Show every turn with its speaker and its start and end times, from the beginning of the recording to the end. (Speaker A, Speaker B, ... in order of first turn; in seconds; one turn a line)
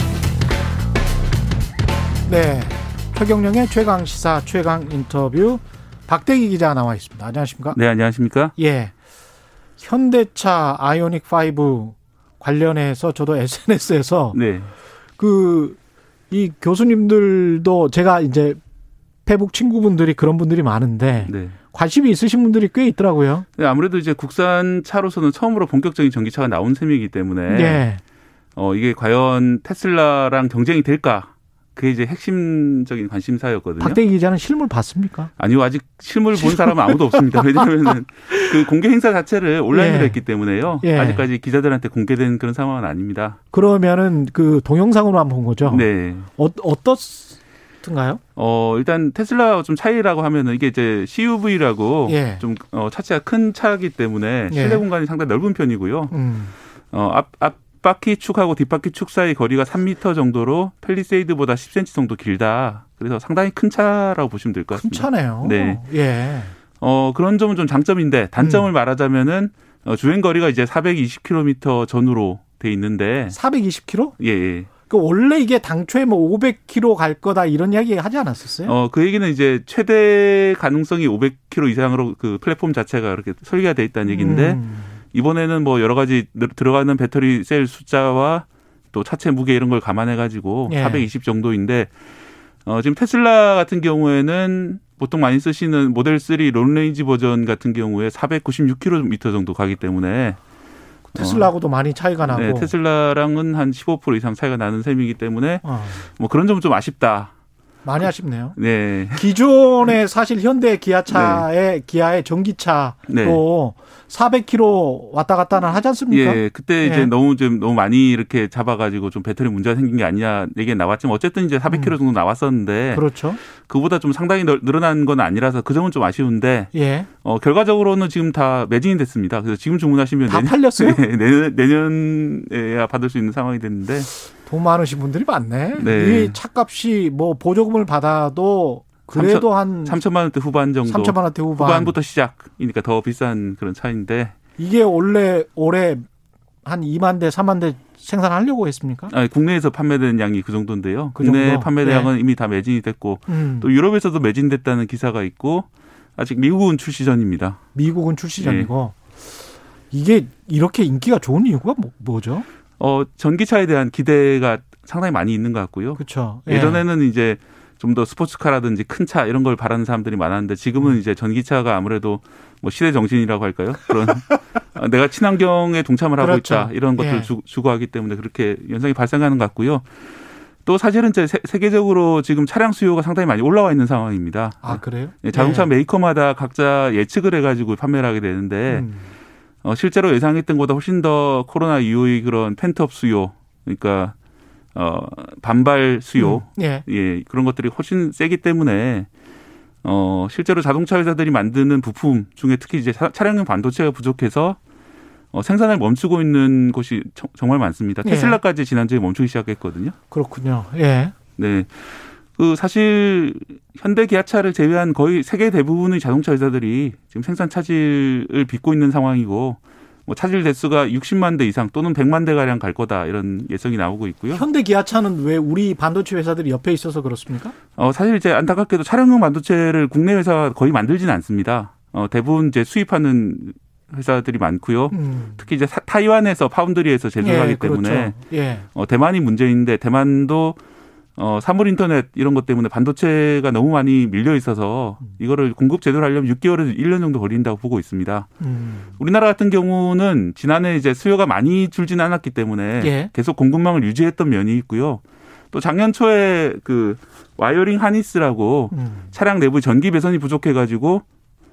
Speaker A: 2.2-7.8
Speaker B: 7.7-8.5
Speaker A: 8.6-8.9
Speaker A: 9.8-14.4
Speaker B: 14.3-14.7
Speaker A: 15.2-15.8
Speaker A: 16.3-18.6
Speaker A: 19.2-23.4
Speaker B: 21.2-21.6
Speaker B: 23.6-27.8
Speaker A: 27.5-28.0
Speaker B: 28.6-34.0
Speaker A: 33.8-35.3
Speaker B: 35.4-43.4
Speaker A: 36.4-38.5
Speaker A: 39.7-40.2
Speaker A: 40.8-41.3
Speaker A: 43.5-48.2
Speaker B: 45.6-46.3
Speaker B: 48.4-56.1
Speaker A: 52.1-52.4
Speaker A: 54.5-54.9
Speaker A: 56.1-56.5
Speaker B: 56.9-65.8
Speaker A: 64.8-66.5
Speaker B: 66.8-73.4
Speaker A: 68.4-68.7
Speaker A: 73.3-74.1
Speaker B: 74.2-74.7
Speaker A: 74.9-78.7
Speaker B: 78.6-84.6
Speaker A: 84.1-84.9
Speaker B: 85.1-91.9
Speaker A: 90.7-91.1
Speaker B: 92.7-100.4
Speaker A: 101.1-102.7
Speaker B: 101.1-101.5
Speaker B: 102.3-107.3
Speaker A: 105.6-106.0
Speaker A: 107.8-108.5
Speaker B: 108.6-109.3
Speaker A: 109.1-117.1
Speaker B: 111.1-111.5
Speaker B: 113.1-113.4
Speaker B: 116.1-123.0
Speaker A: 121.7-122.0
Speaker A: 122.9-123.4
Speaker B: 123.6-126.7
Speaker A: 126.7-127.1
Speaker B: 127.2-134.1
Speaker A: 130.3-131.0
Speaker A: 134.4-140.0
Speaker B: 135.7-136.4
Speaker B: 139.1-144.3
Speaker A: 140.8-141.9
Speaker A: 144.6-146.0
Speaker A: 146.6-149.1
Speaker B: 149.1-157.6
Speaker A: 151.1-152.1
Speaker A: 153.3-153.7
Speaker A: 157.7-159.0
Speaker B: 158.4-158.7
Speaker A: 159.9-162.4
Speaker B: 162.8-179.8
Speaker A: 166.0-166.8
Speaker A: 176.2-177.3
Speaker B: 180.6-188.9
Speaker A: 184.6-185.7
Speaker A: 188.7-189.1
Speaker B: 189.6-194.1
Speaker B: 194.7-199.1
Speaker A: 196.2-196.8
Speaker B: 199.8-204.6
Speaker B: 205.3-209.9
Speaker A: 208.0-208.4
Speaker A: 210.1-211.1
Speaker B: 211.4-211.7
Speaker B: 212.4-224.4
Speaker A: 224.3-227.5
Speaker B: 227.8-238.2
Speaker A: 234.9-235.4
Speaker A: 237.2-238.7
Speaker B: 238.7-240.6
Speaker B: 241.2-248.3
Speaker A: 248.4-248.9
Speaker B: 249.0-255.0
Speaker A: 252.8-253.1
Speaker B: 255.5-261.0
Speaker A: 258.7-259.1